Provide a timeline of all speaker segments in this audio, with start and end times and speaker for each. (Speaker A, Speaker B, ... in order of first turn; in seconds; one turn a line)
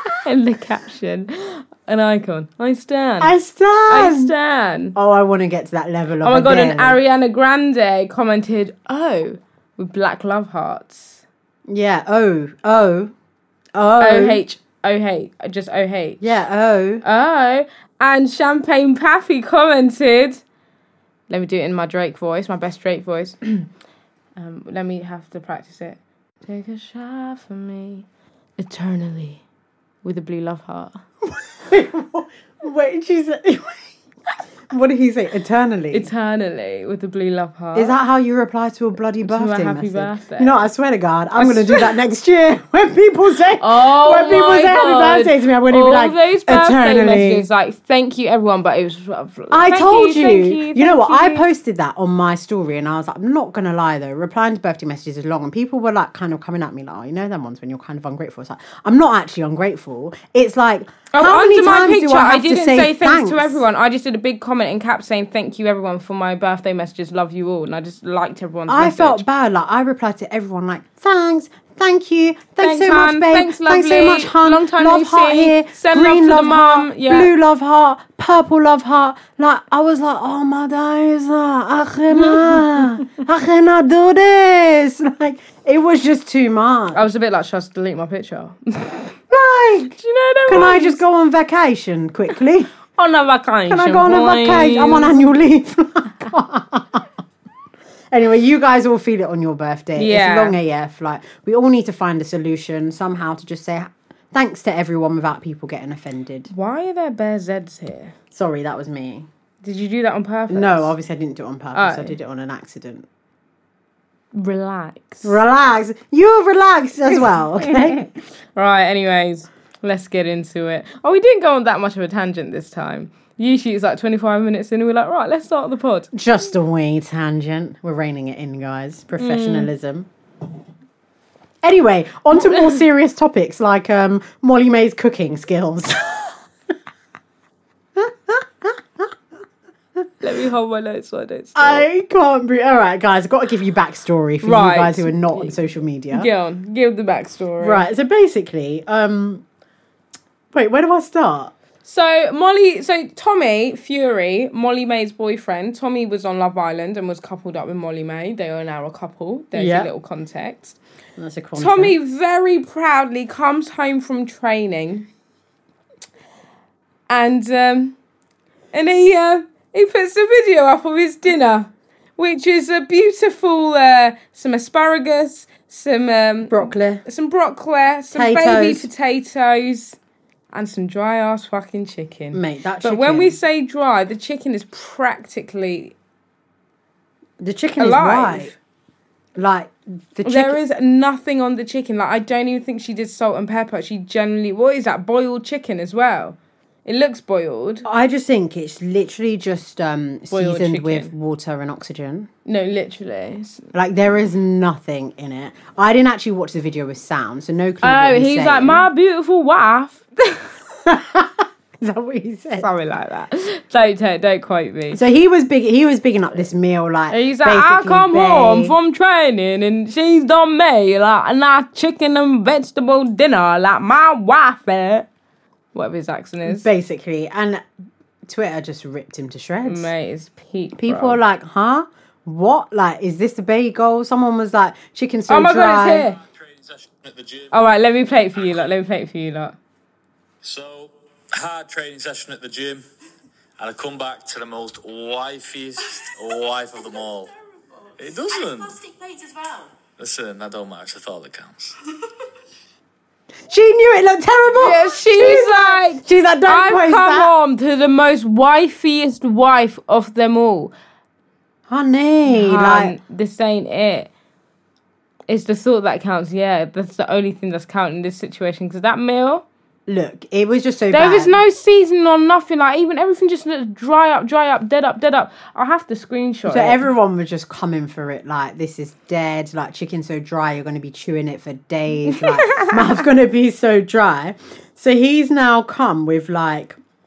Speaker A: 0.2-3.3
Speaker B: 3.2-4.3
Speaker A: 3.9-5.0
Speaker B: 4.9-7.0
Speaker A: 6.2-11.2
Speaker B: 11.7-13.1
Speaker B: 13.7-14.4
Speaker A: 14.0-16.3
Speaker B: 16.2-17.0
Speaker A: 17.0-20.4
Speaker A: 21.3-23.7
Speaker A: 24.4-28.1
Speaker A: 28.6-29.4
Speaker A: 30.0-31.0
Speaker B: 31.2-33.9
Speaker B: 34.7-36.1
Speaker A: 35.9-37.9
Speaker B: 37.7-47.5
Speaker A: 39.2-40.6
Speaker A: 41.4-41.9
Speaker A: 43.6-51.5
Speaker B: 49.5-63.6
Speaker A: 61.1-69.2
Speaker B: 68.7-87.0
Speaker A: 72.6-77.3
Speaker A: 82.1-82.8
Speaker A: 86.9-89.2
Speaker B: 89.3-90.0
Speaker A: 90.0-91.0
Speaker B: 90.5-92.7
Speaker A: 93.0-95.3
Speaker B: 93.7-97.1
Speaker B: 98.1-106.5
Speaker A: 100.0-100.5
Speaker A: 106.5-108.1
Speaker B: 108.3-109.3
Speaker A: 109.6-110.9
Speaker B: 110.5-113.1
Speaker A: 111.7-112.2
Speaker A: 114.3-115.4
Speaker B: 115.2-118.0
Speaker A: 118.5-126.1
Speaker B: 126.1-130.1
Speaker A: 129.2-129.7
Speaker B: 131.6-136.3
Speaker B: 137.9-139.1
Speaker A: 140.2-141.8
Speaker B: 141.5-146.3
Speaker A: 144.4-145.5
Speaker A: 146.1-147.8
Speaker B: 147.6-149.4
Speaker B: 150.5-151.5
Speaker A: 151.8-160.8
Speaker B: 159.5-159.9
Speaker B: 161.2-161.9
Speaker A: 161.6-165.1
Speaker A: 167.1-167.9
Speaker A: 168.7-180.0
Speaker B: 176.5-177.0
Speaker B: 178.1-178.9
Speaker A: 180.5-185.9
Speaker B: 182.3-183.4
Speaker B: 187.4-188.5
Speaker A: 187.8-188.5
Speaker B: 189.3-190.6
Speaker A: 190.2-197.8
Speaker B: 197.8-202.3
Speaker A: 200.3-201.1
Speaker A: 202.4-203.7
Speaker B: 203.7-208.9
Speaker A: 207.8-210.5
Speaker B: 210.8-212.7
Speaker A: 212.6-215.0
Speaker B: 214.9-218.8
Speaker A: 217.1-225.1
Speaker A: 225.7-226.7
Speaker B: 226.4-227.6
Speaker B: 228.2-229.9
Speaker A: 229.6-231.2
Speaker B: 230.8-236.1
Speaker A: 235.3-236.2
Speaker C: 236.2-237.5
Speaker A: 237.5-239.6
Speaker C: 240.4-242.8
Speaker C: 243.6-247.3
Speaker C: 248.0-251.7
Speaker B: 253.5-257.3
Speaker A: 254.5-260.7
Speaker B: 261.7-262.9
Speaker A: 262.2-264.1
Speaker A: 265.3-269.4
Speaker B: 269.9-271.4
Speaker A: 270.9-276.9
Speaker B: 276.5-286.8
Speaker A: 282.1-282.9